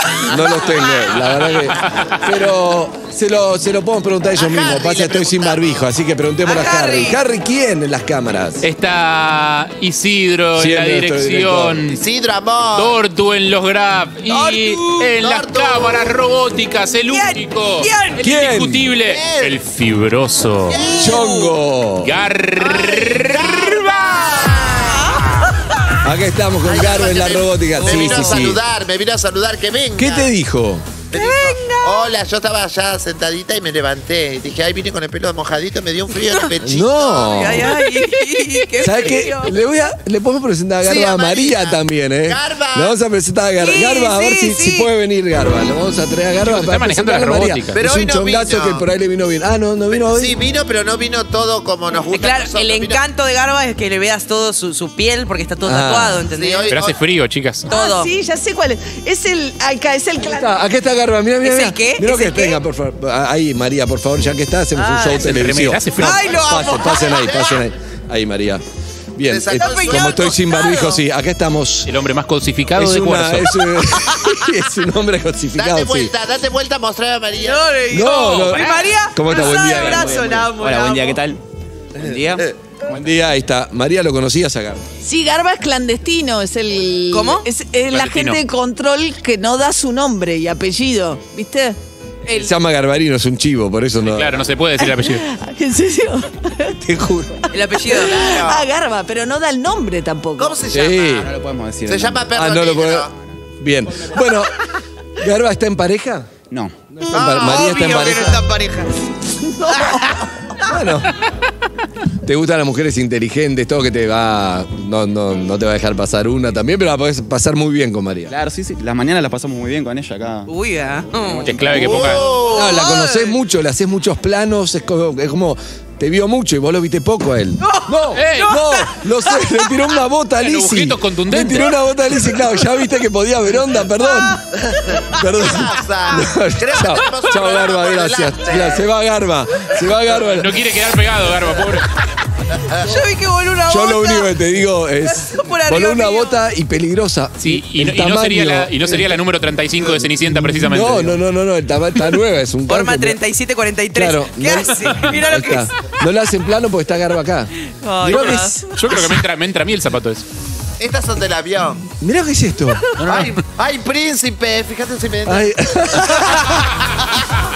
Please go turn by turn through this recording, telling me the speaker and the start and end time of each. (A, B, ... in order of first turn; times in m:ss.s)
0:00.2-0:01.3 A
0:00.3-0:08.7 B
0:01.8-0:02.2 C
0:04.4-0:05.9 A
0:06.4-0:07.2 D
0:08.6-0:12.0 C
0:10.6-0:11.8 B
0:11.9-0:13.0 A
0:12.8-0:20.8 C
0:14.3-0:15.1 D
0:15.2-0:16.2 A
0:17.1-0:18.2 D
0:18.2-0:18.9 B
0:19.0-0:19.6 A
0:20.7-0:21.2 A
0:20.8-0:21.6 D
0:20.9-0:22.2 B
0:22.0-0:24.0 C
0:22.6-0:25.5 A
0:24.4-0:25.5 D
0:26.0-0:28.6 B
0:26.6-0:30.3 A
0:27.8-0:28.5 D
0:30.0-0:30.9 B
0:31.1-0:37.5 A
0:31.1-0:32.1 D
0:36.6-0:38.0 B
0:37.2-0:39.6 D
0:38.8-0:50.3 B
0:40.8-0:43.0 A
0:43.6-0:44.9 D
0:46.4-0:47.8 C
0:47.8-0:48.8 A
0:49.9-0:53.0 A
0:52.1-0:56.7 D
0:55.6-0:56.2 B
0:56.3-0:57.0 A
0:56.7-0:57.7 C
0:57.7-0:58.1 D
0:57.7-1:00.7 E
1:00.2-1:08.6 B
1:01.4-1:02.6 D
1:04.8-1:05.2 D
1:05.2-1:06.3 C
1:06.0-1:07.5 D
1:06.3-1:07.6 A
1:09.2-1:11.9 B
1:09.3-1:10.4 A
1:09.5-1:11.0 D
1:11.9-1:13.8 C
1:12.8-1:16.1 B
1:14.1-1:14.4 D
1:15.6-1:17.7 A
1:17.4-1:21.2 D
1:17.9-1:20.5 B
1:19.7-1:21.4 F
1:22.0-1:22.5 F
1:22.0-1:22.4 A
1:22.9-1:24.9 B
1:25.0-1:32.5 E
1:27.1-1:27.5 D
1:27.9-1:28.4 C
1:32.3-1:34.4 B
1:34.1-1:35.3 C
1:34.8-1:40.6 E
1:36.8-1:37.3 B
1:37.5-1:38.2 D
1:38.0-1:38.7 A
1:40.4-1:41.3 A
1:40.7-1:41.3 B
1:41.2-1:42.3 F
1:41.9-1:43.1 A
1:42.3-1:43.1 B
1:43.6-1:44.6 B
1:45.2-1:46.3 B
1:46.5-1:46.8 F
1:47.0-1:48.4 B
1:47.1-1:50.7 A
1:50.6-1:51.1 B
1:52.2-1:58.4 B
1:58.3-2:00.5 F
2:00.5-2:03.2 D
2:01.3-2:02.2 F
2:01.5-2:02.2 C
2:01.7-2:03.0 A
2:02.5-2:14.4 B
2:07.6-2:09.6 D
2:08.2-2:08.6 C
2:10.4-2:11.8 C
2:14.6-2:18.9 A
2:15.1-2:20.6 B
2:20.2-2:21.9 C
2:22.6-2:22.9 A
2:22.8-2:24.3 D
2:23.7-2:29.2 B
2:25.3-2:26.4 D
2:27.4-2:31.2 C
2:29.8-2:33.2 B
2:32.7-2:35.7 D
2:33.9-2:39.2 B
2:37.6-2:38.6 D
2:38.1-2:40.3 C
2:40.8-2:41.9 A
2:42.0-2:42.8 B
2:43.0-2:43.4 C
2:43.0-2:47.3 A
2:45.2-2:46.7 B